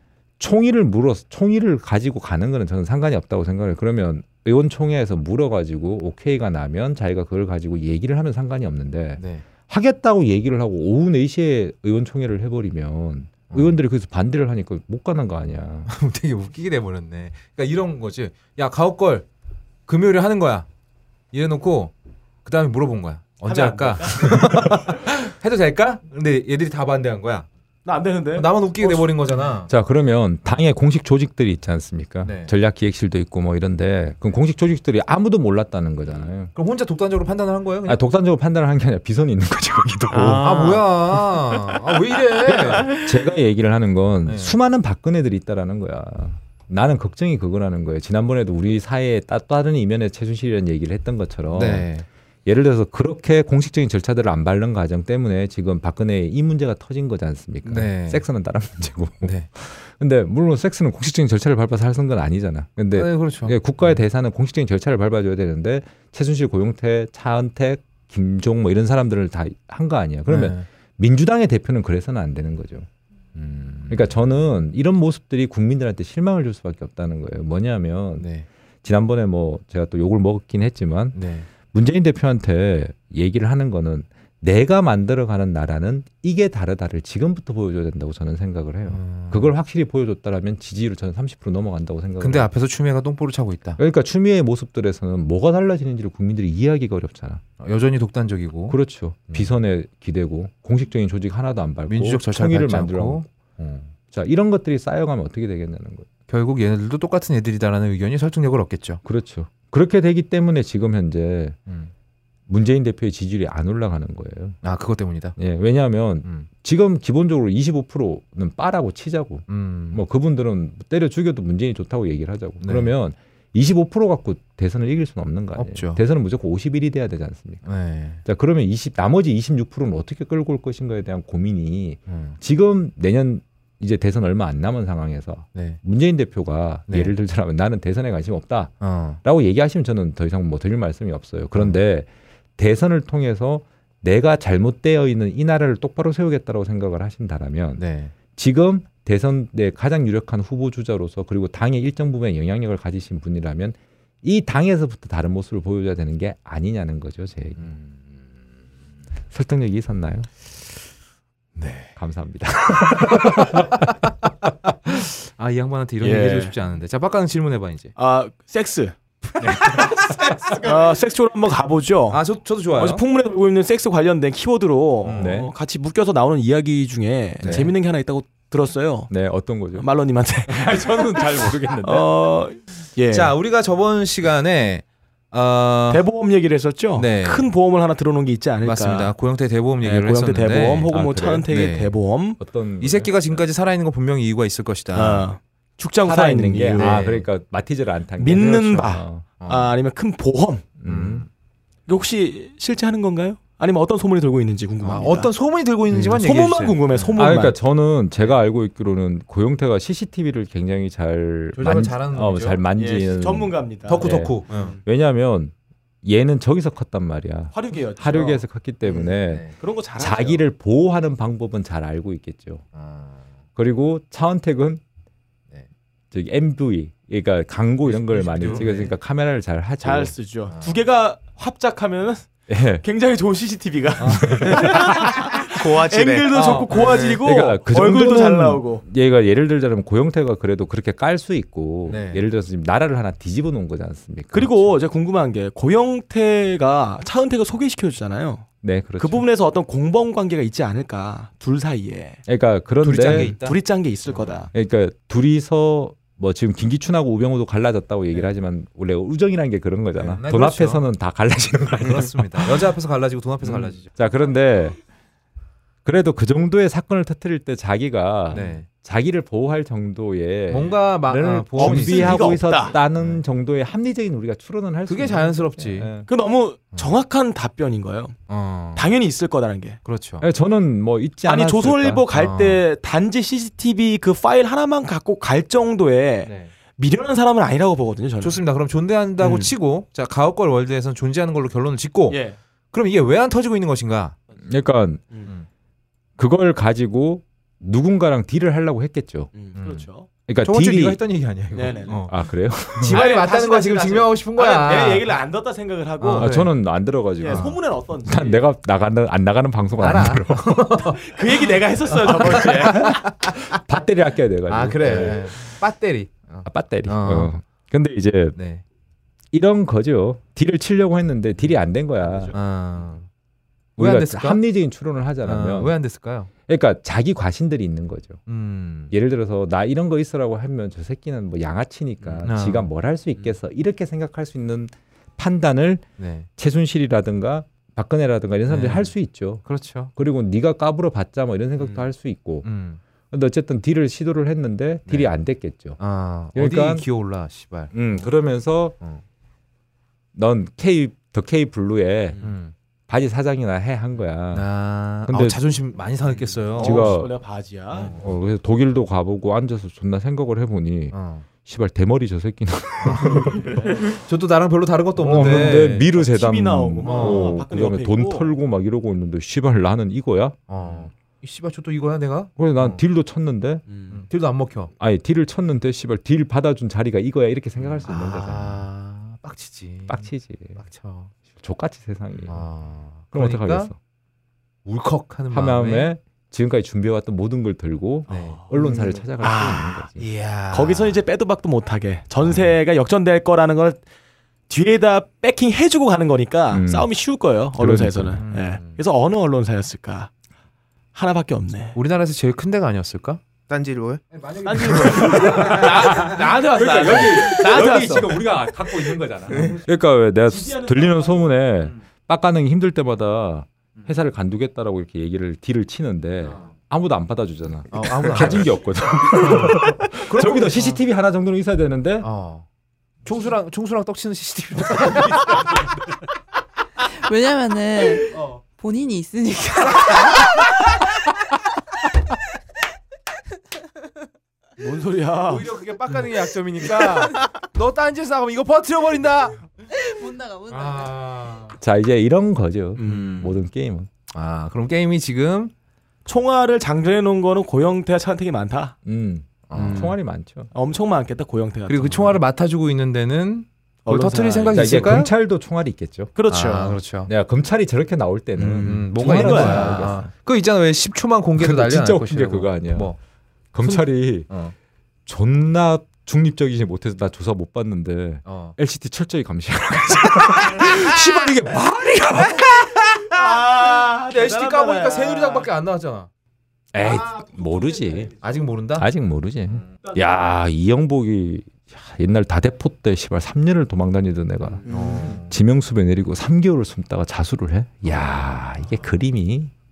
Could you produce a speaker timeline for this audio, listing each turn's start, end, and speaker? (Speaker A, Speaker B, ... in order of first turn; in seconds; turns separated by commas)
Speaker A: 0.4-15.9, Speaker B: 9.2-9.4, Speaker B: 13.5-13.8, Speaker B: 15.8-19.2, Speaker B: 19.9-20.7, Speaker B: 21.3-21.9, Speaker B: 22.4-27.5, Speaker C: 23.4-24.8, Speaker C: 27.8-29.1, Speaker B: 28.3-29.7, Speaker A: 29.7-36.5, Speaker B: 32.2-32.5, Speaker B: 36.5-38.0, Speaker A: 37.8-41.8, Speaker B: 40.1-42.9, Speaker A: 42.4-51.9, Speaker B: 44.2-44.6, Speaker B: 51.5-52.0, Speaker A: 52.5-72.9, Speaker B: 57.6-58.2, Speaker B: 59.2-59.5, Speaker B: 62.9-64.0, Speaker B: 70.3-70.7, Speaker B: 73.3-74.2, Speaker A: 73.9-78.3, Speaker B: 78.2-78.5, Speaker A: 78.8-92.5, Speaker B: 81.1-81.5, Speaker B: 88.9-89.5, Speaker B: 92.2-93.8, Speaker A: 93.8-97.4, Speaker B: 97.6-98.8, Speaker A: 98.7-103.2, Speaker B: 99.3-99.5, Speaker B: 101.9-103.9, Speaker A: 104.1-106.1, Speaker B: 106.3-109.0, Speaker A: 109.0-111.6, Speaker B: 111.7-111.9, Speaker A: 112.5-114.6, Speaker B: 114.6-115.3, Speaker A: 115.3-127.6, Speaker B: 119.5-120.0, Speaker B: 122.6-122.9, Speaker B: 125.5-126.0, Speaker B: 127.6-128.2, Speaker A: 128.2-157.8, Speaker B: 132.1-132.4, Speaker B: 135.5-135.8, Speaker B: 136.9-137.1, Speaker B: 138.8-139.2, Speaker B: 141.5-141.8, Speaker B: 147.8-148.1, Speaker B: 157.6-157.9, Speaker A: 159.3-160.5, Speaker B: 161.6-161.9, Speaker A: 162.0-164.0, Speaker B: 162.9-164.1, Speaker B: 164.8-167.9, Speaker C: 166.0-166.5, Speaker C: 167.9-168.9, Speaker A: 169.4-170.3, Speaker B: 169.6-170.6, Speaker C: 170.6-172.2, Speaker B: 172.1-173.0, Speaker C: 172.8-179.1, Speaker B: 175.0-175.4, Speaker A: 175.2-175.5, Speaker B: 177.4-177.7, Speaker A: 179.1-179.9, Speaker C: 179.8-183.3, Speaker A: 180.5-182.1, Speaker B: 183.1-186.0, Speaker C: 185.9-189.1, Speaker B: 186.9-187.5, Speaker B: 188.6-190.9, Speaker C: 189.8-192.4, Speaker A: 190.9-191.5, Speaker B: 191.5-191.9, Speaker A: 192.4-193.2, Speaker B: 192.8-195.3, Speaker C: 194.9-197.0, Speaker A: 196.0-199.3, Speaker B: 196.7-197.3, Speaker C: 198.2-200.7, Speaker B: 199.4-199.7, Speaker A: 200.8-201.2, Speaker B: 200.8-201.3, Speaker C: 201.9-205.3, Speaker B: 204.8-207.1, Speaker C: 205.9-207.6, Speaker A: 207.2-219.4, Speaker B: 211.5-212.6, Speaker C: 212.8-214.8, Speaker B: 213.9-214.7, Speaker C: 217.5-218.4, Speaker B: 218.9-219.5, Speaker C: 219.6-220.4, Speaker A: 220.0-222.6, Speaker B: 222.7-223.4, Speaker A: 223.6-224.8, Speaker A: 226.1-230.1, Speaker B: 227.9-228.9, Speaker C: 228.2-228.7, Speaker C: 229.8-232.3, Speaker B: 230.5-230.8, Speaker A: 232.5-232.8, Speaker C: 232.8-238.8, Speaker B: 234.0-234.5, Speaker A: 234.0-235.1, Speaker D: 234.8-237.2, Speaker B: 236.3-236.7, Speaker A: 237.2-244.7, Speaker B: 241.8-242.2, Speaker C: 244.3-252.2, Speaker A: 248.6-249.2, Speaker A: 252.3-253.3, Speaker B: 252.8-253.6, Speaker C: 253.1-254.5, Speaker B: 254.1-254.4, Speaker A: 254.5-262.7, Speaker B: 260.0-260.9, Speaker B: 261.8-263.9, Speaker A: 263.4-264.8, Speaker A: 265.8-276.1, Speaker B: 268.3-268.7, Speaker B: 270.5-272.4, Speaker C: 271.6-272.7, Speaker B: 272.9-273.2, Speaker B: 274.9-275.9, Speaker C: 276.1-278.2, Speaker B: 278.3-278.9, Speaker C: 278.7-279.8, Speaker B: 279.8-280.3, Speaker A: 280.2-282.1, Speaker C: 281.2-288.4, Speaker B: 282.1-282.6, Speaker B: 286.2-286.5, Speaker B: 288.2-292.2, Speaker C: 289.2-289.5, Speaker C: 292.1-292.4, Speaker B: 292.7-294.1, Speaker A: 294.4-295.0, Speaker A: 296.2-299.3, Speaker C: 299.3-300.1, Speaker B: 299.5-299.9, Speaker A: 300.3-301.0, Speaker B: 300.4-302.1, Speaker C: 301.5-302.1, Speaker A: 302.1-303.0, Speaker C: 302.8-306.4, Speaker B: 302.8-305.1, Speaker B: 306.0-306.5, Speaker A: 306.2-307.5, Speaker C: 307.2-308.4, Speaker B: 307.3-307.6, Speaker A: 308.0-310.8, Speaker B: 309.8-311.1, Speaker C: 310.8-312.9, Speaker B: 311.9-313.6, Speaker A: 312.3-315.3, Speaker B: 314.5-317.3, Speaker A: 316.4-318.4, Speaker B: 318.3-318.6, Speaker A: 319.3-322.4, Speaker C: 322.0-322.4, Speaker B: 322.3-323.1, Speaker B: 323.8-324.4, Speaker A: 323.8-325.8, Speaker B: 325.2-326.3, Speaker A: 326.5-328.2, Speaker B: 328.3-328.9, Speaker A: 328.9-335.8, Speaker B: 332.2-332.7, Speaker B: 336.0-336.3, Speaker A: 336.4-339.4, Speaker B: 338.5-338.9, Speaker B: 339.4-339.9, Speaker A: 339.9-342.5, Speaker C: 341.6-341.9, Speaker B: 342.4-342.8, Speaker A: 343.1-345.8, Speaker B: 345.8-348.1, Speaker A: 346.3-346.9, Speaker A: 347.7-348.8, Speaker A: 350.1-352.2, Speaker B: 352.2-352.5, Speaker A: 352.9-354.5, Speaker B: 354.3-356.9, Speaker A: 355.1-355.4, Speaker C: 356.5-357.9, Speaker A: 356.6-357.1, Speaker B: 357.7-358.1, Speaker A: 357.8-363.8, Speaker B: 360.9-361.2, Speaker B: 362.8-365.9, Speaker C: 363.4-363.8, Speaker A: 365.0-370.4, Speaker C: 365.1-368.3, Speaker B: 366.8-367.4, Speaker B: 370.5-372.8, Speaker A: 372.4-373.6, Speaker C: 373.7-374.0, Speaker B: 373.9-374.7, Speaker A: 374.8-378.6, Speaker B: 377.8-381.1, Speaker A: 379.9-380.6, Speaker A: 381.4-382.4, Speaker B: 382.3-383.7, Speaker A: 383.1-383.8, Speaker B: 384.6-385.9, Speaker A: 385.3-390.0, Speaker B: 388.1-391.0, Speaker C: 388.1-388.4, Speaker C: 390.5-393.8, Speaker C: 394.5-400.1, Speaker A: 396.5-396.9, Speaker A: 397.6-398.2, Speaker B: 398.1-398.8, Speaker C: 400.9-401.8, Speaker B: 401.7-403.2, Speaker D: 403.5-404.0, Speaker B: 404.1-406.2, Speaker C: 404.4-408.2, Speaker A: 405.1-422.1, Speaker C: 410.2-411.2, Speaker B: 417.7-418.5, Speaker B: 419.2-420.8, Speaker B: 422.0-422.4, Speaker B: 423.0-425.4, Speaker E: 427.0-430.5, Speaker B: 428.1-428.4, Speaker C: 434.6-435.5, Speaker B: 435.3-439.5, Speaker E: 439.8-440.9, Speaker B: 440.5-441.6, Speaker A: 441.6-443.9, Speaker C: 442.8-443.2, Speaker B: 442.8-443.3, Speaker B: 444.1-445.5, Speaker C: 446.1-448.8, Speaker A: 448.8-450.5, Speaker B: 449.5-449.9, Speaker C: 449.5-450.0, Speaker C: 450.5-452.2, Speaker B: 451.7-455.1, Speaker C: 453.9-454.8, Speaker A: 454.5-456.1, Speaker C: 456.1-456.8, Speaker B: 456.3-457.1, Speaker A: 457.1-460.1, Speaker B: 458.4-463.0, Speaker C: 458.5-460.0, Speaker A: 461.4-462.9, Speaker A: 463.5-464.3, Speaker B: 463.6-464.5, Speaker A: 465.1-473.0, Speaker B: 468.2-468.6, Speaker B: 470.2-471.4, Speaker C: 473.1-475.5, Speaker B: 473.1-476.1, Speaker A: 476.7-478.1, Speaker C: 476.8-478.3, Speaker B: 478.2-478.9, Speaker A: 478.8-489.5, Speaker B: 484.7-485.4